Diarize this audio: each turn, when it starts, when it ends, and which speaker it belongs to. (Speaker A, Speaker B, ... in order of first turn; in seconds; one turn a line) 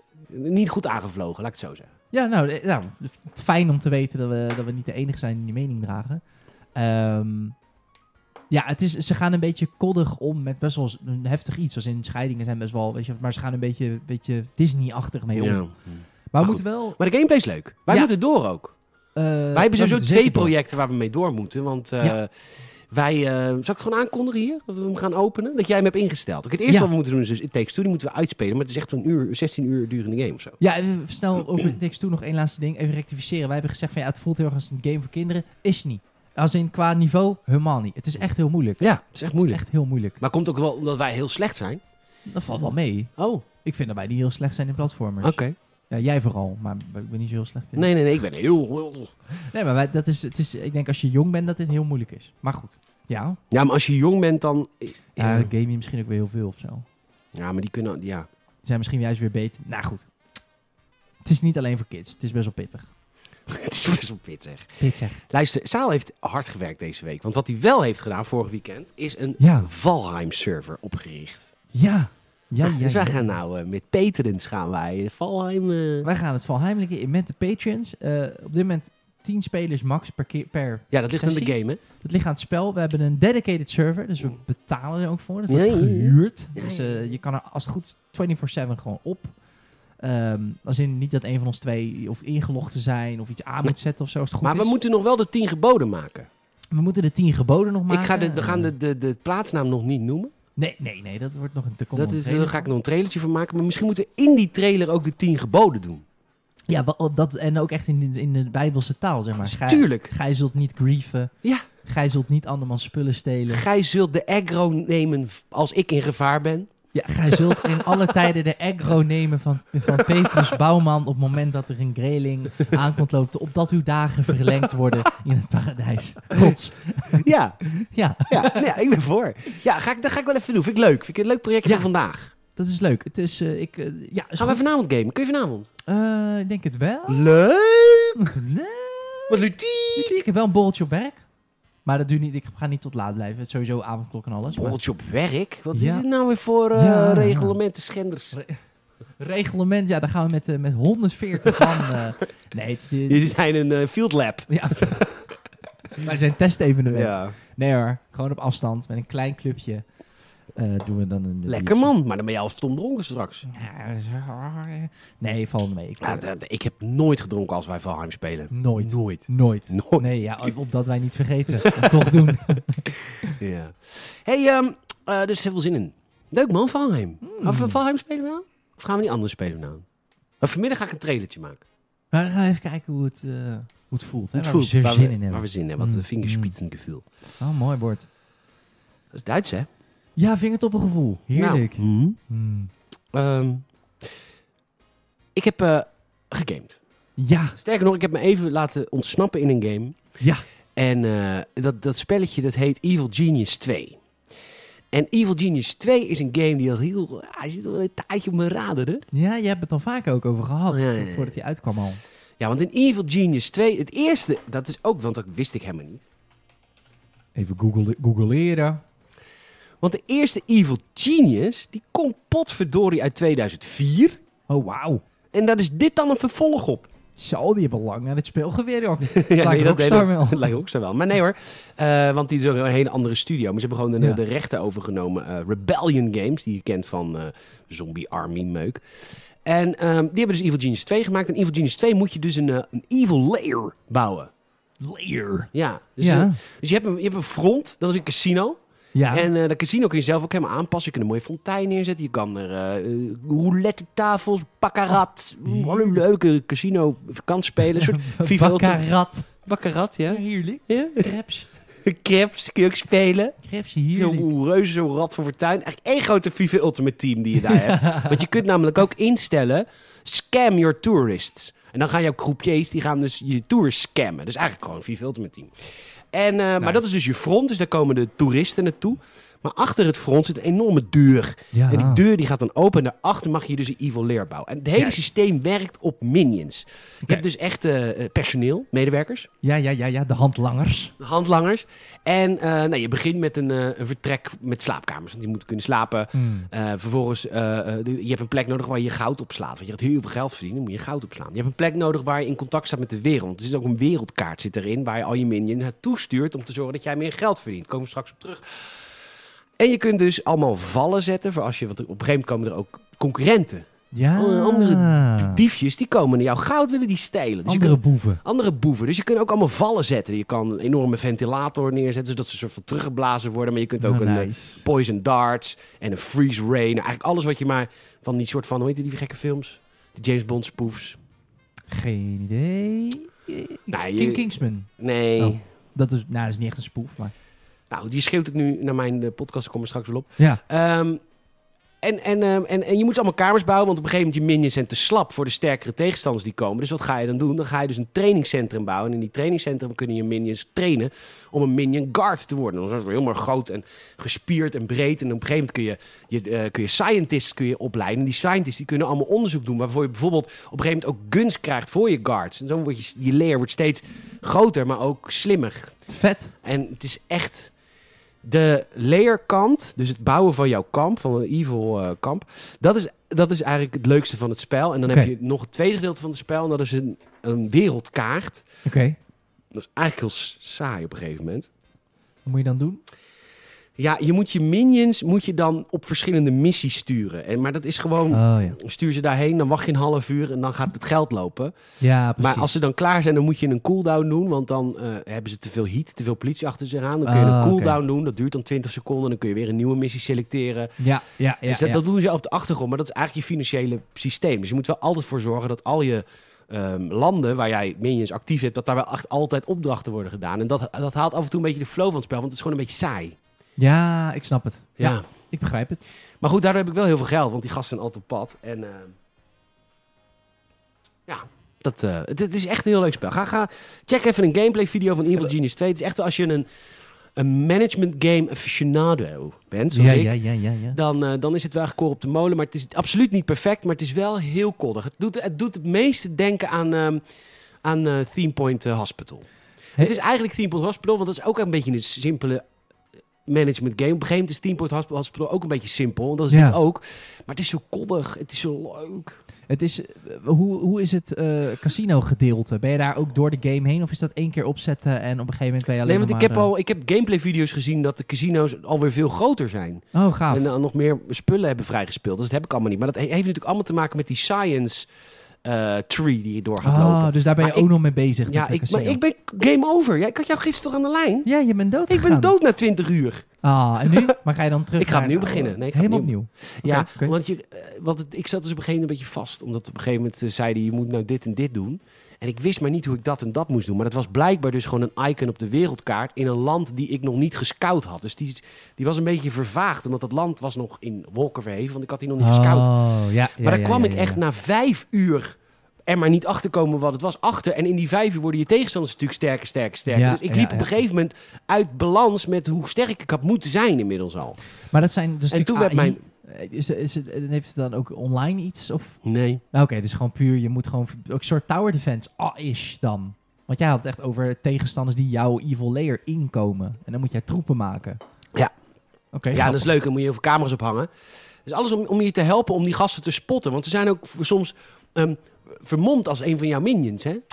Speaker A: 0.3-1.9
Speaker B: 2.1-6.2
Speaker B: 6.7-7.5
Speaker B: 8.5-15.7
Speaker A: 15.3-18.7
Speaker B: 16.3-17.0
Speaker B: 19.1-20.5
Speaker A: 19.5-22.3
Speaker A: 22.9-30.6
Speaker B: 30.6-40.2
Speaker A: 38.8-39.6
Speaker A: 40.2-41.8
Speaker B: 42.3-47.9
Speaker A: 43.2-43.4
Speaker A: 45.2-45.5
Speaker A: 47.8-49.1
Speaker B: 49.4-53.4
Speaker A: 53.5-55.5
Speaker B: 55.2-56.8
Speaker A: 57.3-58.3
Speaker B: 58.6-60.1
Speaker B: 61.2-62.9
Speaker A: 63.5-71.5
Speaker B: 64.8-65.2
Speaker B: 69.4-69.7
Speaker B: 71.7-73.3
Speaker A: 72.6-76.1
Speaker B: 76.0-89.3
Speaker A: 80.9-81.8
Speaker A: 85.5-87.0
Speaker B: 90.0-94.7
Speaker A: 94.4-96.3
Speaker B: 96.7-98.7
Speaker A: 97.9-100.3
Speaker B: 100.6-102.7
Speaker A: 101.9-106.0
Speaker B: 106.7-111.3
Speaker A: 109.4-110.1
Speaker B: 111.8-113.6
Speaker A: 113.5-116.7
Speaker B: 116.9-128.7
Speaker A: 117.4-117.8
Speaker A: 127.1-127.6
Speaker A: 128.3-132.3
Speaker B: 132.5-134.7
Speaker A: 134.4-135.7
Speaker B: 135.8-137.4
Speaker A: 137.1-138.3
Speaker B: 138.2-139.4
Speaker A: 139.3-140.2
Speaker B: 139.9-141.2
Speaker B: 141.8-144.8
Speaker A: 144.5-148.4
Speaker B: 145.7-146.1
Speaker B: 146.7-147.6
Speaker B: 149.2-153.3
Speaker A: 151.4-151.9
Speaker A: 153.1-155.3
Speaker B: 154.5-155.1
Speaker B: 155.9-159.8
Speaker A: 156.9-157.3
Speaker B: 160.5-161.9
Speaker A: 161.5-163.5
Speaker B: 163.4-166.3
Speaker A: 166.0-170.1
Speaker B: 168.5-173.3
Speaker A: 171.6-172.2
Speaker A: 172.9-179.8
Speaker B: 177.2-177.8
Speaker A: 180.4-181.6
Speaker B: 182.1-186.5
Speaker A: 184.3-187.1
Speaker B: 187.4-188.1
Speaker A: 189.1-189.7
Speaker B: 190.2-192.7
Speaker A: 191.3-192.2
Speaker A: 193.1-193.7
Speaker A: 195.3-196.8
Speaker B: 197.2-197.6
Speaker A: 197.6-200.0
Speaker A: 200.8-204.0
Speaker A: 204.9-209.1
Speaker B: 209.1-212.0
Speaker A: 210.7-211.3
Speaker A: 212.4-216.1
Speaker B: 217.3-218.8
Speaker A: 219.8-224.2
Speaker B: 224.5-225.0
Speaker A: 225.3-226.9
Speaker B: 227.2-230.5
Speaker A: 229.1-238.8
Speaker A: 239.4-244.3
Speaker B: 244.8-245.5
Speaker A: 245.5-248.6
Speaker B: 246.0-246.4
Speaker B: 248.9-249.3
Speaker A: 249.1-258.8
Speaker B: 255.4-256.0
Speaker B: 257.7-259.3
Speaker A: 259.4-261.1
Speaker B: 260.1-261.5
Speaker A: 261.8-263.4
Speaker B: 263.4-264.3
Speaker A: 263.9-275.5
Speaker B: 267.4-268.3
Speaker A: 276.1-289.3
Speaker B: 281.5-282.0
Speaker B: 284.8-285.0
Speaker B: 289.4-290.9
Speaker A: 291.0-308.4
Speaker B: 296.1-296.5
Speaker A: 309.6-331.0
Speaker B: 313.9-315.4
Speaker B: 317.4-318.2
Speaker B: 323.8-324.7
Speaker B: 331.7-337.1
Speaker A: 333.7-334.3
Speaker A: 334.8-335.4
Speaker A: 337.7-341.0
Speaker A: 341.8-365.8
Speaker B: 365.9-366.3
Speaker A: 366.4-367.5
Speaker A: 368.2-378.4
Speaker B: 378.6-379.0
Speaker A: 379.5-381.5
Speaker B: 382.2-382.8
Speaker A: 383.8-391.6
Speaker B: 388.1-388.6
Speaker B: 391.8-392.5
Speaker A: 392.2-400.8
Speaker B: 397.0-397.8
Speaker B: 400.8-401.8
Speaker A: 401.4-413.2
Speaker B: 413.6-415.9
Speaker A: 414.8-415.1
Speaker A: 416.2-418.9
Speaker A: 421.1-426.4
Speaker A: 427.1-430.2
Speaker B: 429.7-430.8
Speaker A: 430.7-437.0
Speaker A: 437.6-439.2
Speaker A: 439.8-442.4
Speaker A: 443.2-449.2
Speaker B: 446.3-446.6
Speaker B: 449.5-456.5
Speaker A: 455.8-464.9
Speaker B: 459.9-460.5
Speaker A: 465.4-467.7
Speaker B: 466.6-469.0
Speaker A: 468.3-471.3
Speaker B: 471.2-472.3
Speaker A: 471.9-473.3
Speaker B: 473.4-477.1
Speaker A: 473.8-474.1
Speaker A: 474.8-492.8
Speaker B: 492.2-494.2
Speaker A: 493.4-504.4
Speaker B: 499.9-500.7
Speaker B: 504.7-509.0
Speaker A: 505.3-506.0
Speaker A: 509.0-509.4
Speaker B: 509.5-518.0
Speaker B: 519.1-519.7
Speaker A: 519.3-520.9
Speaker A: 521.4-527.2